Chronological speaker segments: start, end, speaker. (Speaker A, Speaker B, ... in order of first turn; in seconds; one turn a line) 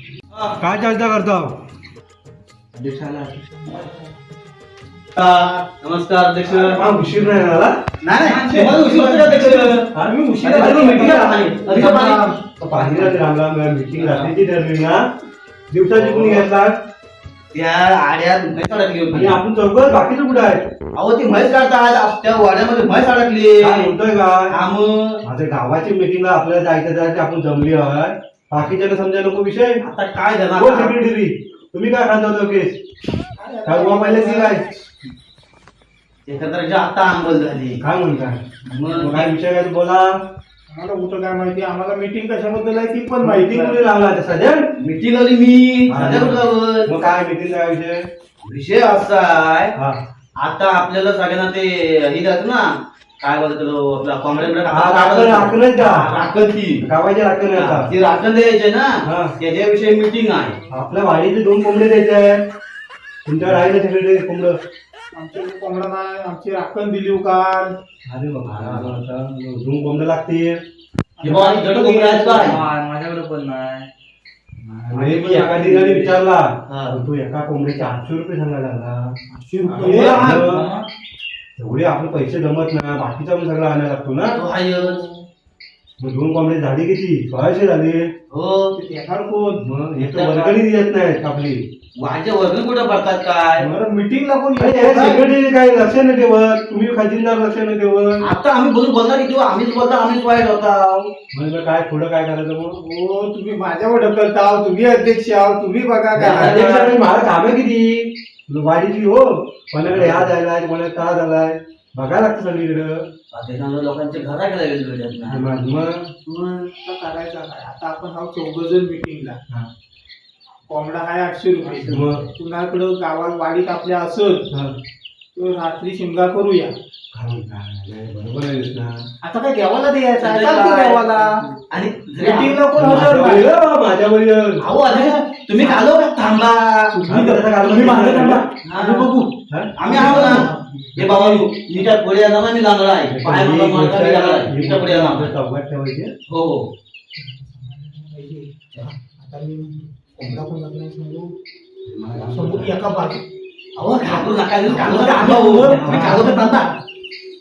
Speaker A: 0.6-1.6
Speaker B: 2.8-3.3
Speaker C: 3.6-4.2
Speaker B: 5.2-6.8
Speaker C: 5.2-5.5
Speaker A: 6.5-7.7
Speaker B: 8.1-9.8
Speaker C: 8.1-13.1
Speaker A: 9.9-11.4
Speaker B: 10.4-12.2
Speaker A: 12.6-15.0
Speaker B: 14.0-14.3
Speaker A: 15.7-16.8
Speaker B: 15.9-16.5
Speaker B: 17.5-19.4
Speaker A: 19.1-20.7
Speaker B: 21.0-23.9
Speaker A: 23.6-24.5
Speaker B: 24.5-25.2
Speaker A: 25.2-29.8
Speaker B: 29.8-30.9
Speaker A: 30.6-32.8
Speaker C: 33.4-34.7
Speaker A: 33.7-34.6
Speaker B: 36.3-37.8
Speaker A: 37.8-40.1
Speaker B: 38.7-39.3
Speaker C: 40.7-43.8
Speaker A: 43.2-44.6
Speaker B: 44.8-46.9
Speaker A: 45.9-48.0
Speaker B: 48.5-49.7
Speaker B: 50.4-56.9
Speaker A: 54.6-56.1
Speaker A: 56.8-57.9
Speaker B: 57.5-60.6
Speaker A: 59.0-59.3
Speaker A: 60.7-62.5
Speaker A: 63.3-64.6
Speaker C: 65.2-67.7
Speaker A: 68.1-70.6
Speaker B: 68.5-68.9
Speaker C: 71.2-72.6
Speaker B: 71.2-72.6
Speaker D: 72.4-73.9
Speaker A: 74.6-79.2
Speaker D: 74.9-76.1
Speaker B: 76.7-77.0
Speaker C: 79.3-80.3
Speaker D: 79.8-80.8
Speaker B: 79.8-80.5
Speaker A: 79.8-80.7
Speaker A: 81.6-84.4
Speaker B: 84.4-85.0
Speaker C: 84.7-85.2
Speaker A: 86.0-88.1
Speaker B: 88.3-88.7
Speaker C: 88.7-90.6
Speaker A: 89.6-91.6
Speaker B: 92.0-93.7
Speaker C: 93.6-95.2
Speaker A: 94.6-98.2
Speaker B: 98.2-101.1
Speaker A: 101.3-102.8
Speaker C: 102.8-106.9
Speaker A: 106.2-113.1
Speaker B: 106.2-106.7
Speaker B: 109.9-110.3
Speaker B: 113.3-115.4
Speaker A: 115.3-116.1
Speaker C: 116.3-119.4
Speaker C: 120.7-124.5
Speaker B: 121.7-122.2
Speaker A: 121.8-122.3
Speaker A: 124.5-124.8
Speaker C: 125.4-126.7
Speaker A: 127.1-129.1
Speaker C: 129.2-131.4
Speaker B: 130.2-132.6
Speaker C: 132.2-133.5
Speaker A: 132.8-134.6
Speaker B: 134.6-136.9
Speaker C: 134.9-135.8
Speaker C: 136.9-139.3
Speaker A: 137.1-138.5
Speaker B: 138.6-139.1
Speaker A: 139.5-141.4
Speaker B: 139.8-145.3
Speaker C: 139.9-141.4
Speaker A: 143.1-146.1
Speaker B: 146.3-146.7
Speaker C: 147.2-151.3
Speaker A: 151.9-152.7
Speaker C: 152.3-153.2
Speaker B: 153.8-156.7
Speaker C: 153.9-156.8
Speaker A: 155.8-156.3